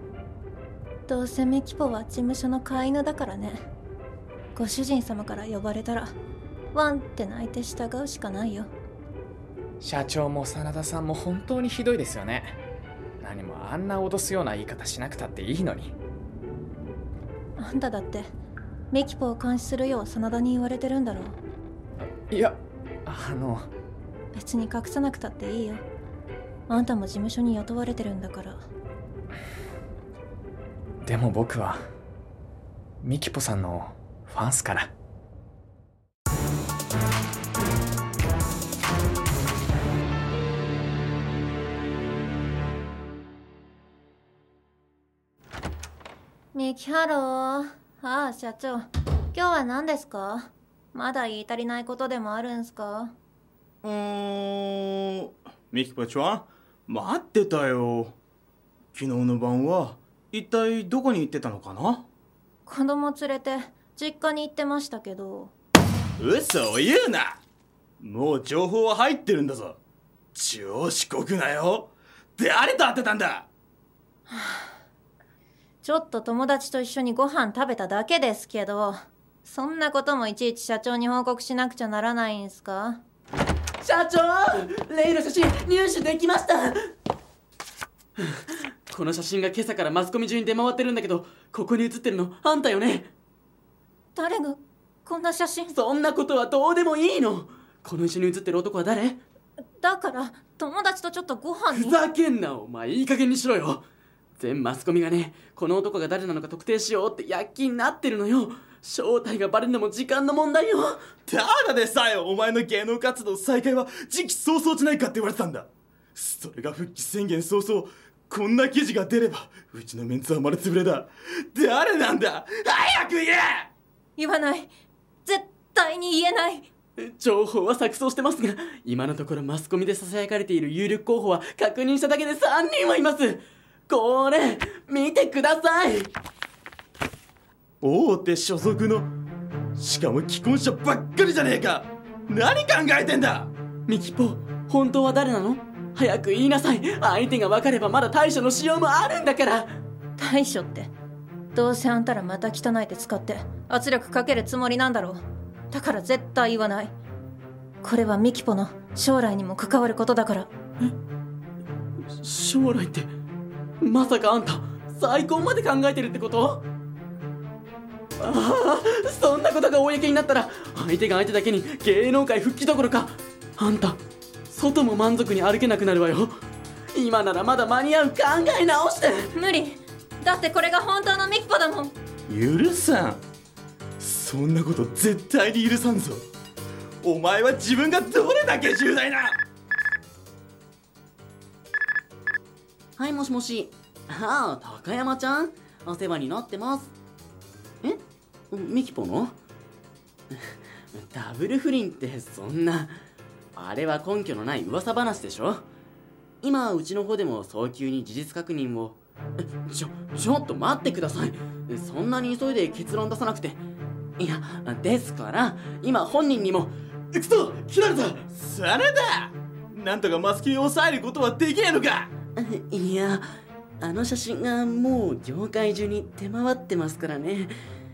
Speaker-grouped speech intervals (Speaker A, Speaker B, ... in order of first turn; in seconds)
Speaker A: 1.1-3.6, 4.5-6.1, 6.7-8.7, 17.6-18.3, 18.9-21.4, 24.3-25.8, 26.7-28.6, 46.5-53.1, 62.6-65.5, 74.3-74.7, 75.8-83.0, 94.1-95.7, 99.8-102.0, 124.2-124.7, 125.2-126.7, 150.2-150.9, 151.5-156.9, 157.8-160.5, 179.3-181.9
Speaker B: 9.8-12.6, 13.2-15.9, 22.3-23.7, 31.0-31.8, 33.0-34.9
Speaker C: 53.8-58.2, 58.9-62.1, 66.2-67.4, 68.0-69.8, 70.3-73.5, 111.2-123.7, 137.8-139.1, 139.8-143.5, 182.3-183.2, 184.0-186.2, 187.0-189.4, 218.3-222.1
Speaker D: 83.8-86.7, 88.9-93.1, 95.7-99.2, 101.7-103.8, 104.4-111.0, 127.0-136.1, 143.9-149.7, 162.2-163.1, 163.8-166.6, 168.2-176.4, 176.9-179.3, 193.0-196.9, 197.8-199.3, 200.9-203.0, 203.6-205.6, 206.4-209.0, 209.7-213.6, 214.2-218.2, 222.4-223.2, 223.8-227.5